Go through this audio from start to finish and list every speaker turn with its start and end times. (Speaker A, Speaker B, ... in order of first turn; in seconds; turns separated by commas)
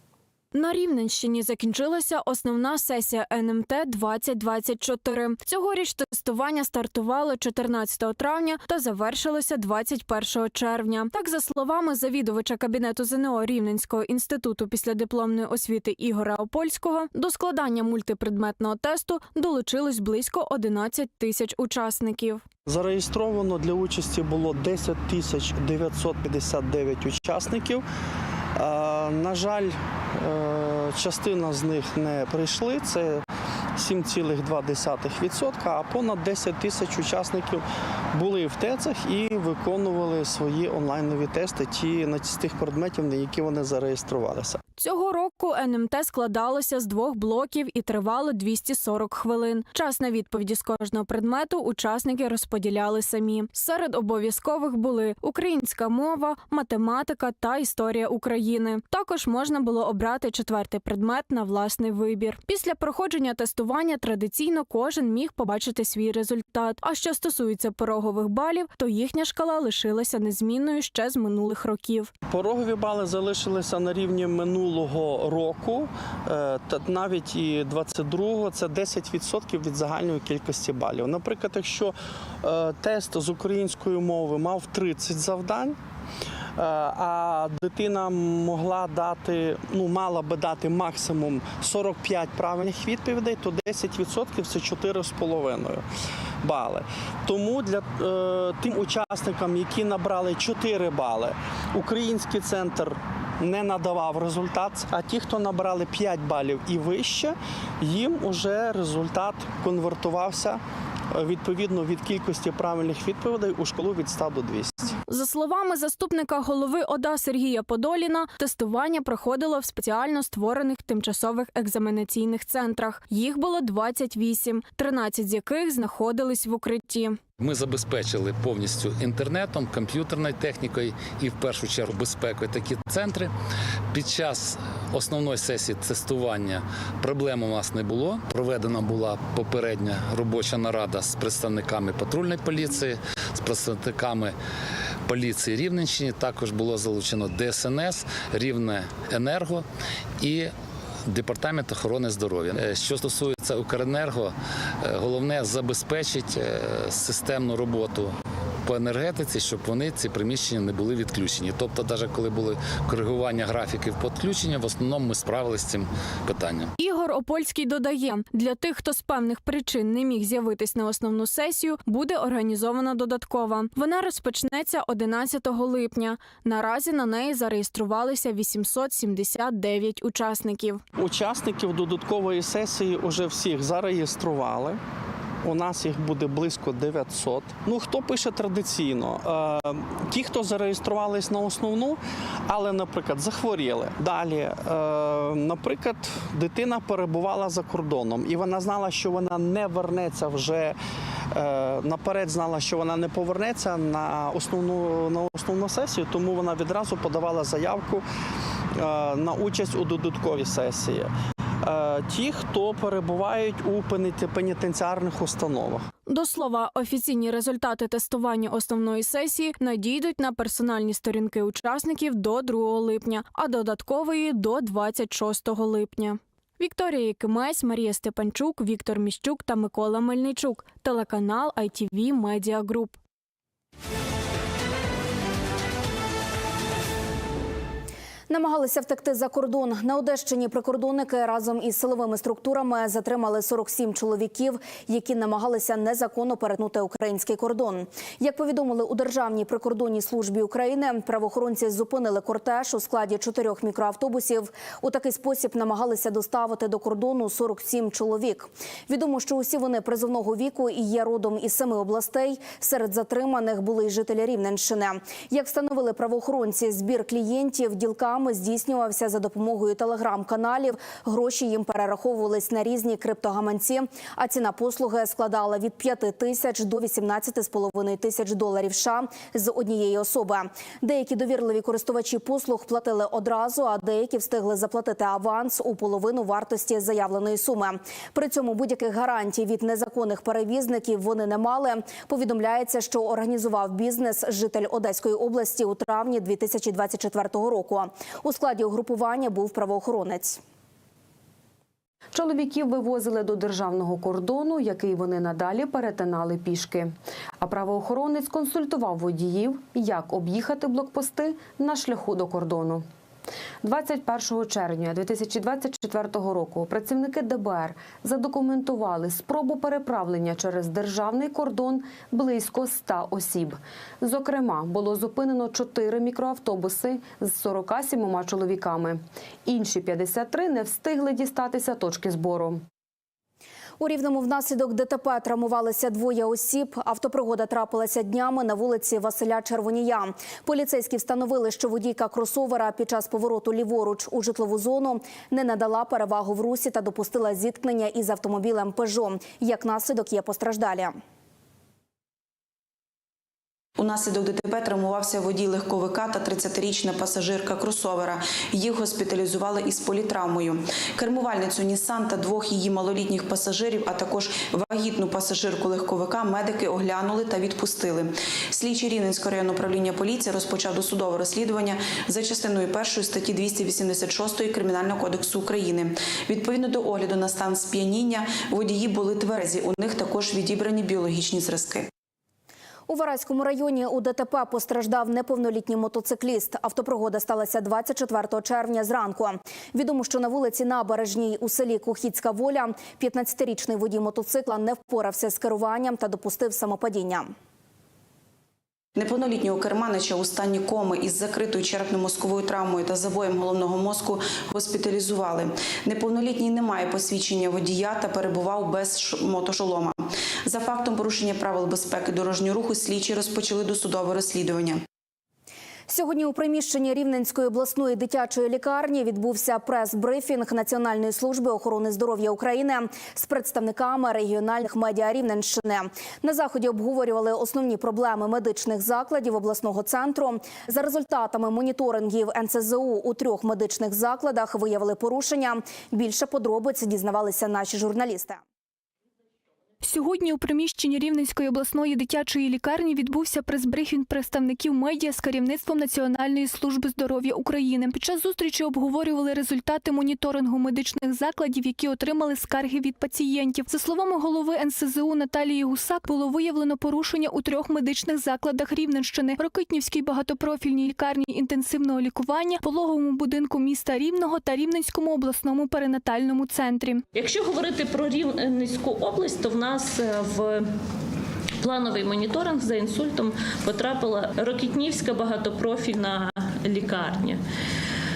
Speaker A: 0.5-22.4, Speaker B: 22.6-27.8, Speaker B: 28.6-33.2, Speaker B: 33.8-44.6, Speaker A: 44.8-72.1, Speaker B: 72.3-85.8, Speaker B: 86.6-95.8, Speaker B: 96.4-110.6, Speaker B: 111.1-114.9, Speaker A: 115.1-127.2, Speaker C: 127.4-133.3, Speaker C: 133.9-144.3, Speaker C: 145.1-149.6, Speaker C: 150.2-150.5, Speaker C: 151.1-154.3, Speaker C: 154.8-158.1, Speaker C: 158.6-166.7, Speaker A: 166.8-180.8, Speaker B: 180.9-184.8, Speaker B: 185.4-200.8, Speaker B: 201.3-208.0, Speaker B: 208.8-211.1, Speaker B: 211.6-215.9, Speaker A: 216.1-233.0, Speaker D: 238.3-300.4, Speaker E: 302.1-312.9, Speaker E: 313.6-332.6, Speaker D: 333.8-351.0, Speaker F: 353.8-381.9, Speaker D: 382.9-397.3, Speaker F: 398.9-414.8, Speaker D: 415.9-438.4, Speaker G: 439.8-467.0, Speaker H: 467.1-470.6, Speaker H: 471.6-477.4